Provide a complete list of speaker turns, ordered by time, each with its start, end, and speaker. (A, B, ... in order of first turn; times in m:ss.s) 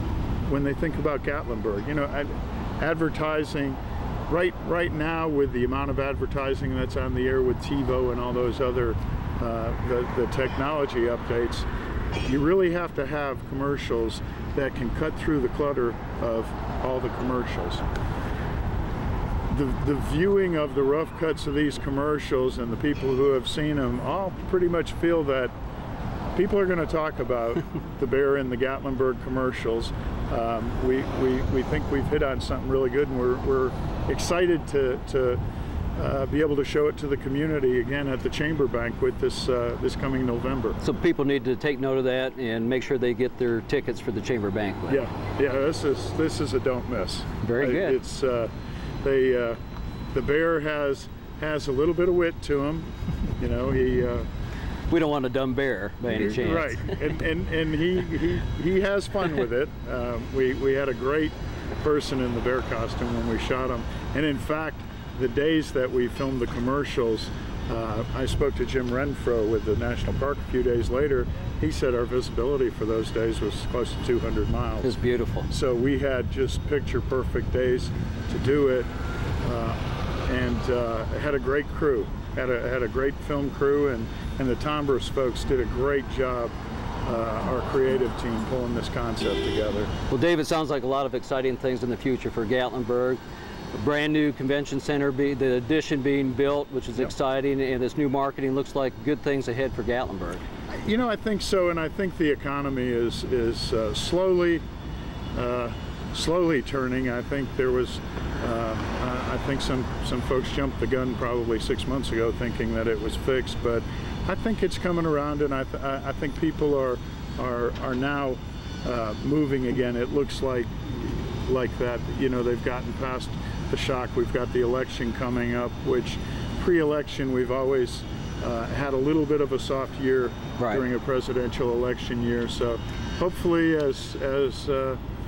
0:00.4-0:11.7 A
0:12.2-0:17.9 A
0:19.5-0:25.5 A
0:26.3-0:35.4 A
0:36.0-0:40.8 A
0:40.8-0:45.0 B
0:44.9-0:48.5 A
0:47.4-0:48.0 B
0:49.0-0:49.6 A
0:50.1-0:54.3 A
0:54.9-0:57.0 B
0:56.1-1:14.9 A
1:14.8-1:15.5 B
1:15.5-1:18.9 A
1:19.4-1:26.5 A
1:27.0-1:29.9 A
1:30.1-1:33.2 B
1:33.7-1:40.4 B
1:40.7-1:44.6 A
1:45.3-2:15.0 A
2:10.6-2:10.8 B